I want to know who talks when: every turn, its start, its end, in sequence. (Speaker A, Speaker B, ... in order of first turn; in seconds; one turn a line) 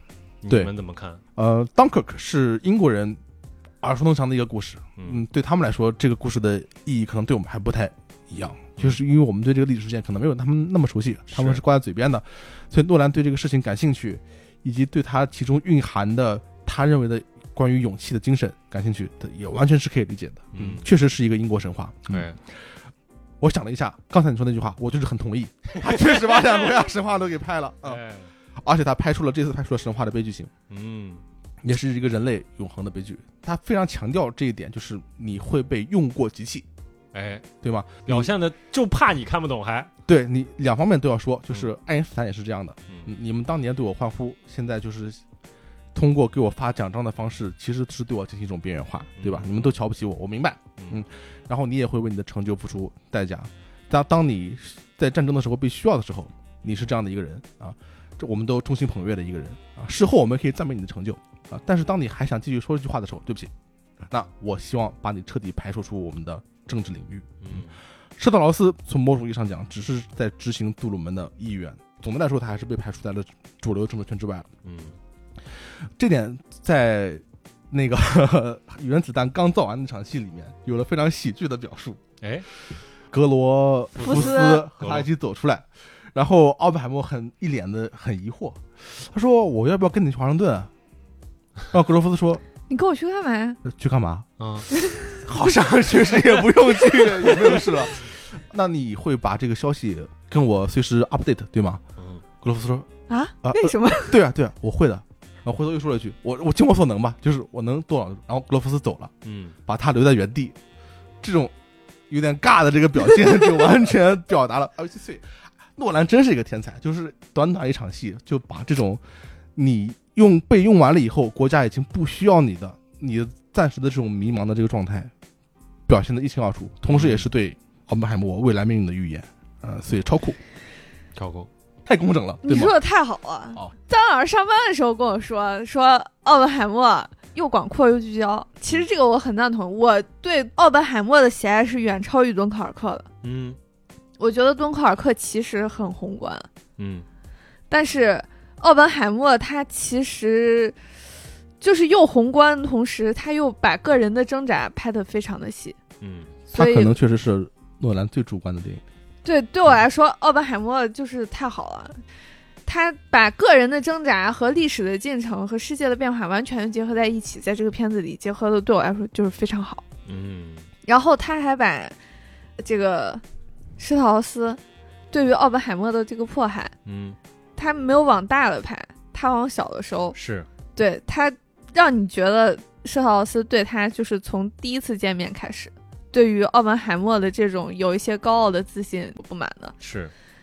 Speaker A: 0.4-1.2
Speaker B: 1.4-3.2
Speaker B: 3.8-22.3
Speaker A: 11.3-11.6
Speaker A: 20.5-20.9
Speaker A: 22.1-22.4
Speaker B: 23.4-28.0
Speaker A: 27.8-28.3
Speaker B: 28.6-30.5
Speaker A: 30.7-31.2
Speaker B: 31.6-36.6
Speaker A: 37.1-37.5
Speaker B: 37.6-38.3
Speaker A: 38.0-39.9
Speaker B: 40.0-45.2
Speaker B: 45.9-63.5
Speaker A: 49.2-49.7
Speaker A: 50.8-51.0
Speaker B: 64.1-67.6
Speaker A: 67.4-67.7
Speaker B: 68.2-74.5
Speaker A: 74.6-75.0
Speaker B: 76.0-82.0
Speaker A: 82.2-82.5
Speaker B: 83.1-90.7
Speaker A: 83.9-85.1
Speaker C: 84.0-84.6
Speaker B: 91.7-92.4
Speaker C: 92.7-93.6
Speaker B: 93.6-94.2
Speaker A: 94.4-94.7
Speaker C: 94.8-95.0
Speaker B: 95.1-101.8
Speaker A: 102.0-102.2
Speaker B: 102.4-102.9
Speaker C: 103.1-104.2
Speaker B: 103.4-109.1
Speaker A: 109.2-109.5
Speaker B: 109.7-110.5
Speaker B: 111.2-111.5
Speaker B: 112.1-119.0
Speaker B: 119.5-125.1
Speaker B: 125.9-130.4
Speaker A: 126.9-127.3
Speaker A: 131.2-131.5
Speaker B: 131.8-132.8
Speaker C: 132.4-143.1
Speaker A: 143.2-143.6
Speaker C: 144.2-146.5
Speaker A: 146.8-147.0
Speaker C: 147.7-150.8
Speaker C: 151.6-155.8
Speaker A: 156.0-156.3
Speaker C: 156.5-156.9
Speaker B: 156.5-158.8
Speaker C: 159.2-161.9
Speaker C: 162.7-169.8
Speaker A: 170.1-170.7
Speaker C: 170.8-171.9
Speaker C: 172.6-173.2
Speaker C: 173.8-174.6
Speaker C: 175.1-176.7
Speaker A: 176.8-177.2
Speaker C: 177.6-180.2
Speaker A: 180.1-180.5
Speaker C: 180.7-189.7
Speaker A: 189.8-190.1